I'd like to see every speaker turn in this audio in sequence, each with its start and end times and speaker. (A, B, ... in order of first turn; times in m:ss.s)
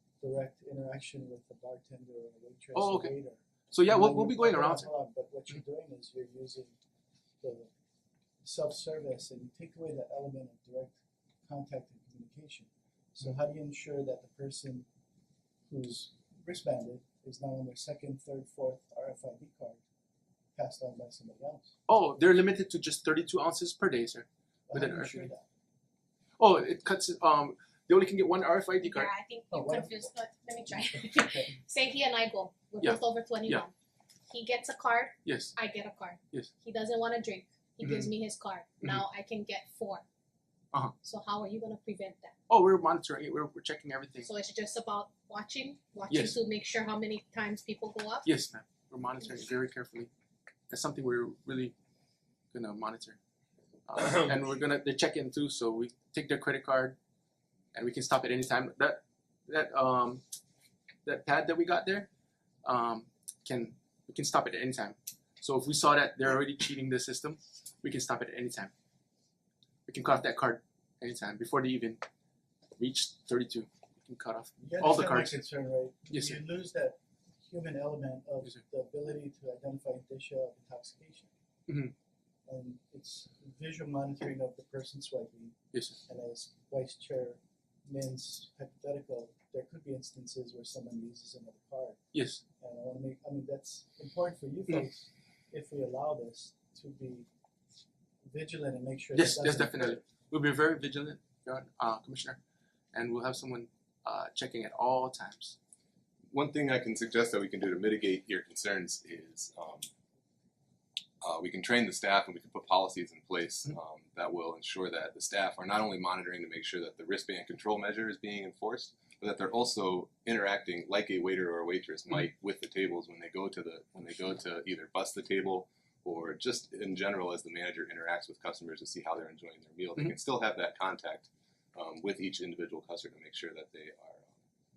0:00.2-0:06.8 A
0:02.7-0:03.1 B
0:03.7-0:04.9 B
0:07.4-0:07.7 A
0:08.4-0:14.9 A
0:15.7-0:19.8 A
0:20.5-0:21.7 A
0:21.9-0:25.3 B
0:24.7-0:25.5 A
0:26.4-0:29.1 B
0:28.8-0:33.7 C
0:29.5-0:30.1 A
0:31.0-0:31.5 A
0:32.8-0:33.6 B
0:34.3-0:40.0 C
0:35.2-0:35.5 B
0:37.8-0:38.1 B
0:41.0-0:42.3 C
0:42.5-0:44.3 B
0:44.2-0:48.3 C
0:46.1-0:46.4 B
0:48.2-0:50.1 B
0:50.7-0:51.7 B
0:52.5-0:53.2 B
0:53.9-0:57.0 B
0:57.7-1:00.2 B
1:01.0-1:02.1 B
1:02.6-1:08.7 B
1:09.9-1:12.0 B
1:12.8-1:15.4 B
1:14.6-1:21.3 A
1:16.1-1:16.4 B
1:21.7-1:21.9 B
1:22.4-1:25.5 A
1:25.7-1:26.0 B
1:26.1-1:32.0 A
1:32.1-1:32.4 B
1:32.6-1:37.3 A
1:38.3-1:40.0 A
1:39.1-1:42.4 B
1:42.9-1:45.6 B
1:46.3-1:49.9 D
1:51.2-2:14.3 D